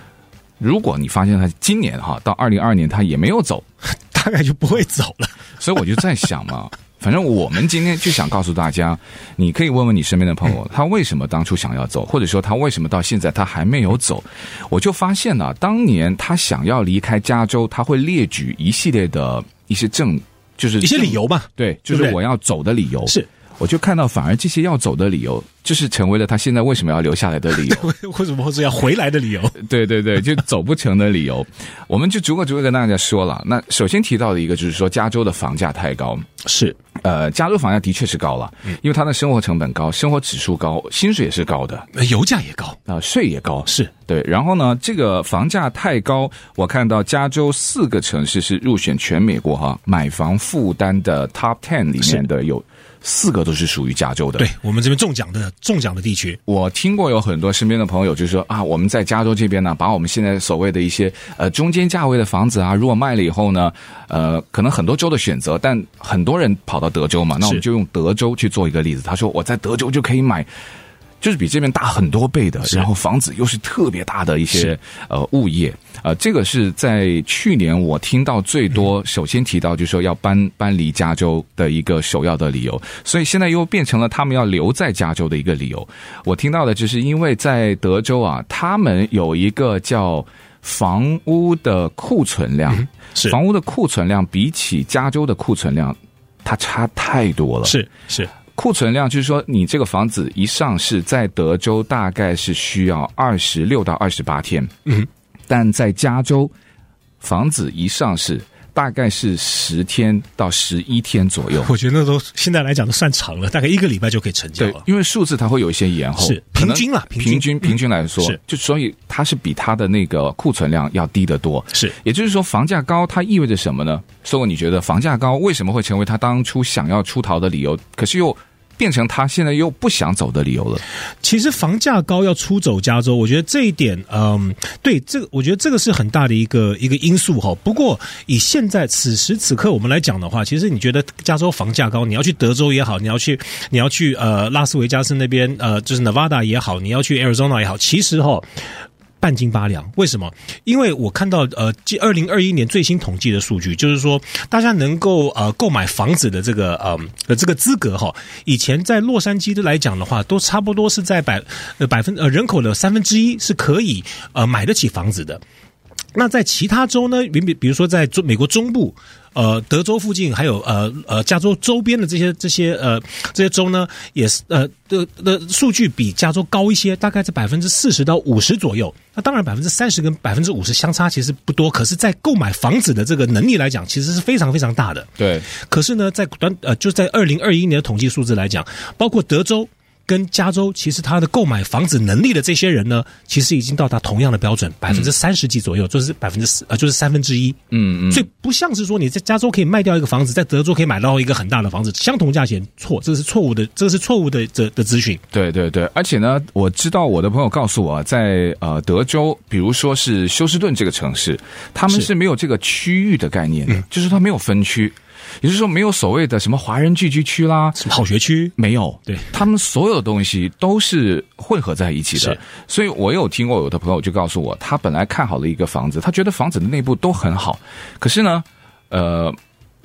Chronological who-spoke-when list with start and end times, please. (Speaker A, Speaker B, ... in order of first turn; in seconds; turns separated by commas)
Speaker A: 0.6-3.6, Speaker B: 3.9-6.0, Speaker A: 5.6-27.9, Speaker B: 20.8-22.2, Speaker B: 27.6-29.6, Speaker A: 29.6-36.3, Speaker B: 36.4-36.8, Speaker A: 37.0-41.9, Speaker B: 41.9-42.8, Speaker A: 42.9-54.5, Speaker B: 43.7-43.9, Speaker B: 54.4-56.4, Speaker A: 56.5-70.5, Speaker A: 71.2-97.8, Speaker B: 92.7-93.4, Speaker B: 97.7-98.3, Speaker A: 98.5-104.7, Speaker A: 105.5-106.5, Speaker A: 107.2-111.7, Speaker B: 111.6-114.8, Speaker A: 114.6-130.8, Speaker B: 116.2-118.4, Speaker B: 131.2-148.5, Speaker B: 149.2-165.4, Speaker B: 166.2-205.2, Speaker A: 185.2-185.5, Speaker A: 197.7-198.3, Speaker A: 205.3-217.9, Speaker B: 217.8-218.6, Speaker A: 218.6-229.4